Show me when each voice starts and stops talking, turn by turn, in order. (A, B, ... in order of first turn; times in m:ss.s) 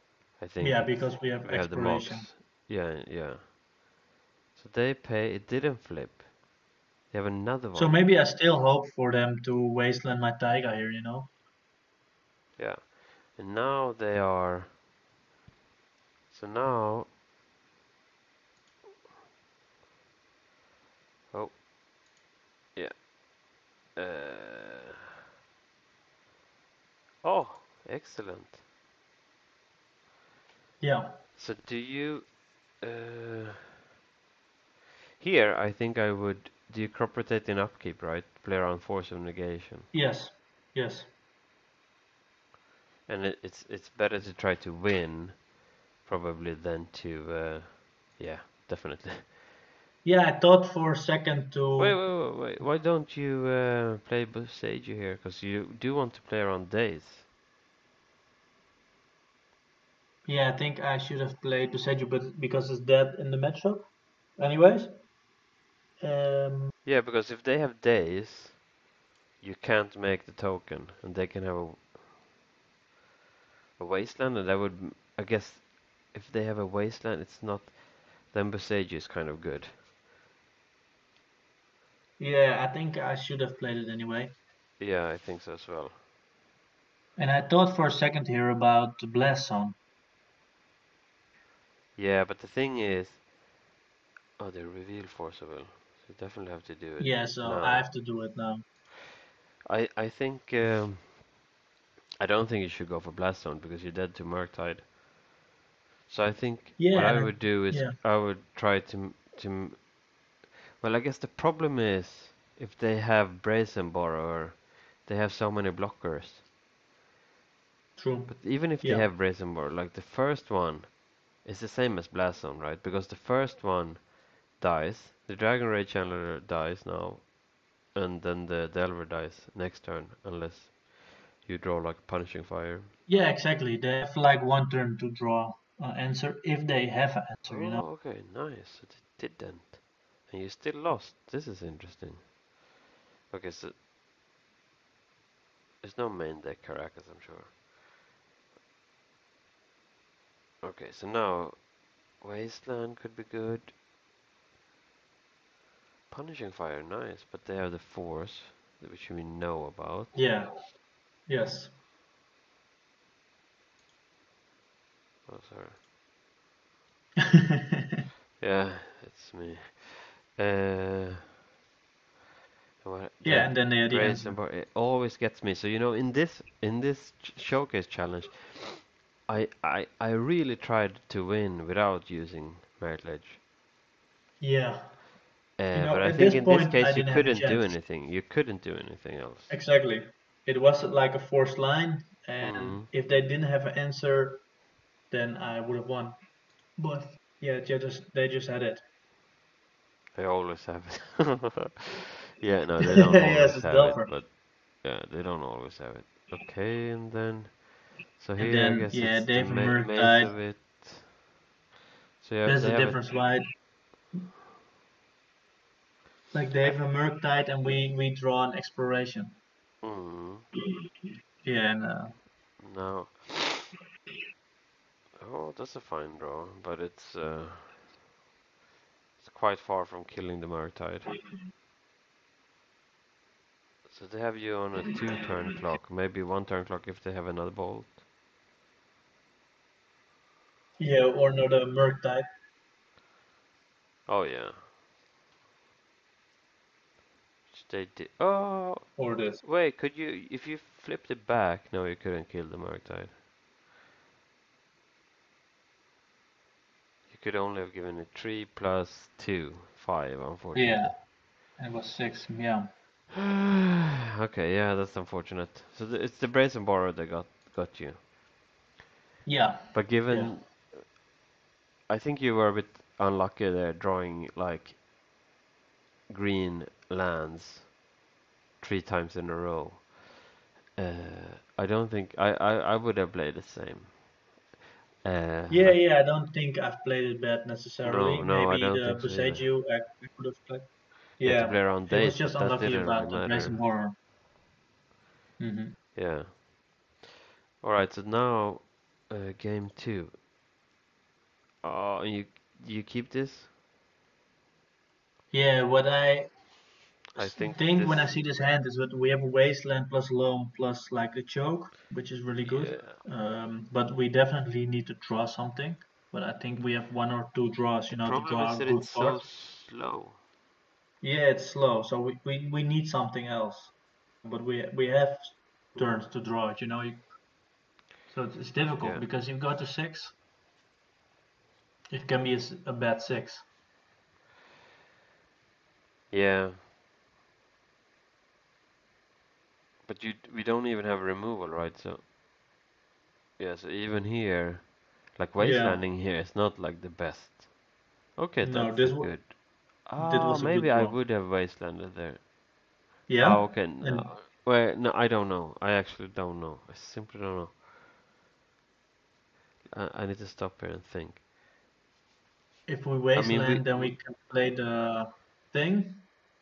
0:00.4-0:03.5 A
0:00.6-0:02.3 B
0:04.5-0:06.2 A
0:07.1-0:08.0 A
0:07.7-0:11.3 B
0:12.6-0:14.8 A
0:16.3-0:17.1 A
0:21.3-0:21.6 A
0:22.7-0:23.1 A
0:23.9-0:24.9 A
0:27.2-0:28.6 A
0:30.8-0:31.2 B
0:31.3-0:33.6 A
0:35.2-0:39.9 A
0:39.9-0:41.1 B
0:43.0-0:45.5 A
0:46.0-0:49.3 A
0:50.0-0:52.6 B
0:51.8-0:57.2 A
1:00.2-1:05.0 B
1:06.0-1:06.7 B
1:06.8-1:08.6 A
1:09.4-1:11.9 A
1:13.8-1:19.8 A
1:22.2-1:24.4 B
1:24.8-1:26.0 A
1:27.2-1:29.8 B
1:32.0-1:33.2 A
1:34.4-1:37.9 A
1:37.0-1:38.6 B
1:39.6-1:41.2 A
1:42.2-1:44.9 A
1:46.1-1:49.9 A
1:46.8-1:48.0 B
1:50.8-1:56.4 A
1:58.0-1:59.1 B
1:58.3-2:07.3 A
2:07.8-2:12.9 A
2:13.1-2:17.9 B
2:17.5-2:22.3 A
2:23.3-2:23.8 A
2:25.8-2:27.6 A
2:30.6-2:33.7 A
2:36.1-2:40.2 A
2:40.1-2:41.8 B
2:45.3-2:45.8 A
2:47.4-2:48.0 B
2:48.4-2:51.2 A
2:52.8-3:03.4 A
2:53.2-2:54.4 B
3:04.4-3:05.0 B
3:05.6-3:09.5 A
3:05.7-3:07.8 B
3:09.5-3:14.5 B
3:12.4-3:12.9 A
3:15.1-3:16.2 B
3:16.8-3:18.8 B
3:20.1-3:21.8 A
3:22.4-3:31.1 A
3:22.8-3:24.2 B
3:28.4-3:30.4 B
3:32.2-3:33.2 A
3:32.4-3:33.4 B
3:36.3-3:39.4 B
3:39.8-3:40.5 A
3:41.4-3:42.2 B
3:42.6-3:43.7 A
3:45.2-3:47.9 A
3:49.2-3:51.2 A
3:53.9-3:58.0 A
4:00.8-4:02.3 B
4:04.0-4:04.7 A
4:07.5-4:13.2 A
4:09.0-4:09.4 B
4:17.1-4:21.0 A
4:20.5-4:22.7 B
4:24.2-4:28.0 A
4:29.2-4:30.4 B
4:29.7-4:31.0 A
4:31.9-4:34.8 A
4:36.1-4:37.7 A
4:38.6-4:39.9 A
4:40.8-4:44.0 A
4:45.0-4:45.8 A
4:45.5-4:53.9 B
4:47.8-4:49.5 A
4:51.2-4:53.6 A
4:55.4-4:55.8 B
4:55.9-4:56.4 A
4:57.6-5:00.2 A
5:01.6-5:03.5 A
5:05.3-5:06.3 B
5:07.1-5:08.2 A
5:07.2-5:19.2 B
5:12.4-5:13.0 A
5:17.9-5:20.2 A
5:21.0-5:27.1 B
5:28.1-5:30.1 B
5:28.8-5:29.1 A
5:31.9-5:33.4 B
5:36.1-5:36.6 A
5:39.8-5:42.0 A
5:43.4-5:47.4 A
5:45.4-5:45.8 B
5:48.1-5:52.3 A
5:48.4-5:49.4 B
5:49.9-5:51.0 B
5:53.0-5:57.6 A
5:53.1-5:54.1 B
5:59.7-6:01.2 A
6:02.6-6:06.1 B
6:03.1-6:04.0 A